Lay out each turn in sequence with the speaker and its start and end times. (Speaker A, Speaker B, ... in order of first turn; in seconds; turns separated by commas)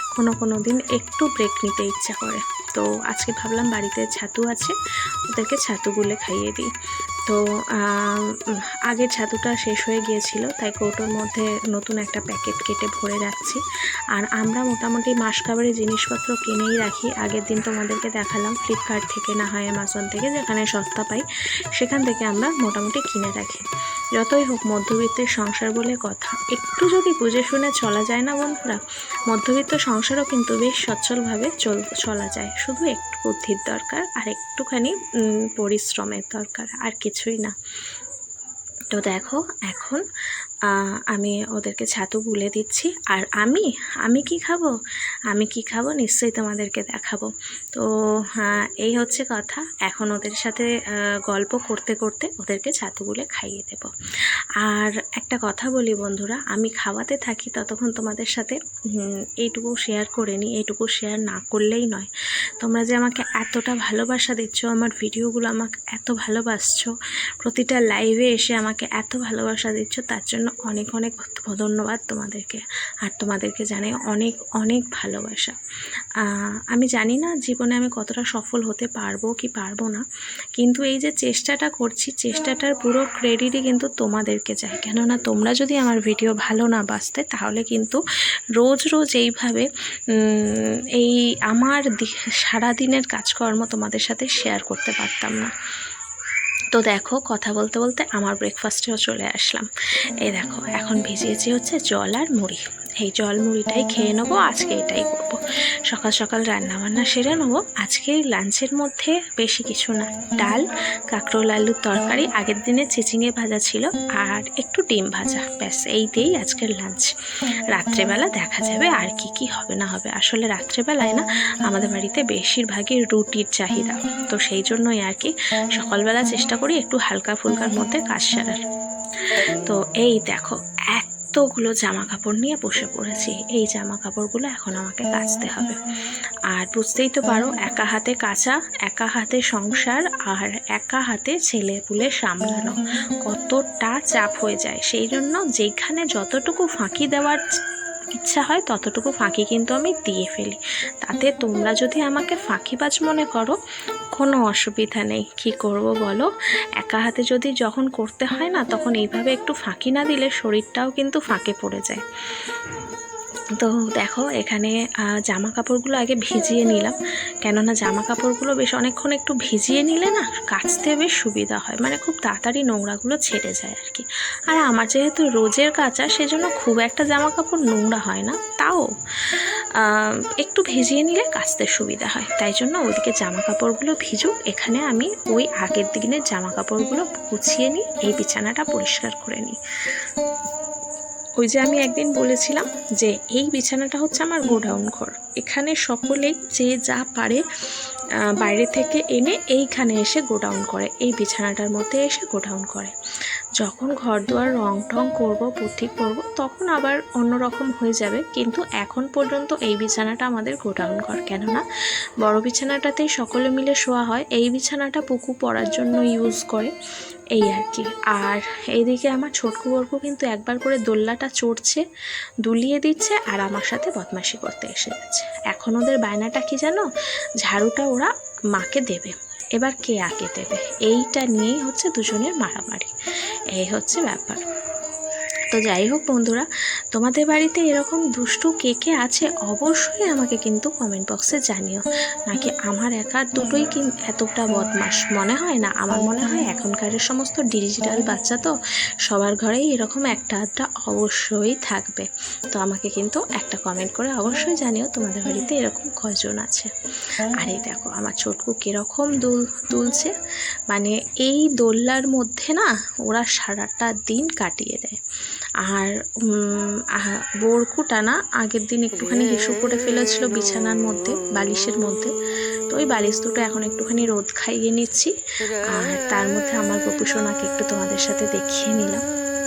Speaker A: 0.1-4.7, Speaker A: 5.3-6.7, Speaker A: 7.3-13.6, Speaker A: 14.1-21.2, Speaker A: 21.7-23.6, Speaker A: 24.2-35.0, Speaker A: 35.5-37.5, Speaker A: 38.9-40.0, Speaker A: 40.6-44.7, Speaker A: 45.3-50.7, Speaker A: 51.3-53.9, Speaker A: 54.6-75.5, Speaker A: 76.2-80.0, Speaker A: 80.6-88.0, Speaker A: 88.6-95.5, Speaker A: 96.7-99.7, Speaker A: 100.2-117.1, Speaker A: 117.7-128.6, Speaker A: 129.2-135.8, Speaker A: 136.5-147.4, Speaker A: 148.1-153.6, Speaker A: 154.2-156.3, Speaker A: 156.8-162.0, Speaker A: 163.6-190.0, Speaker A: 191.4-197.4, Speaker A: 198.3-202.9, Speaker A: 203.6-211.6, Speaker A: 212.2-216.7, Speaker A: 217.3-221.8, Speaker A: 222.4-226.9, Speaker A: 227.4-232.9, Speaker A: 233.6-234.4, Speaker A: 235.5-248.5, Speaker A: 249.1-256.7, Speaker A: 257.4-260.1, Speaker A: 260.7-265.0, Speaker A: 265.7-272.1, Speaker A: 272.7-275.1, Speaker A: 275.7-279.0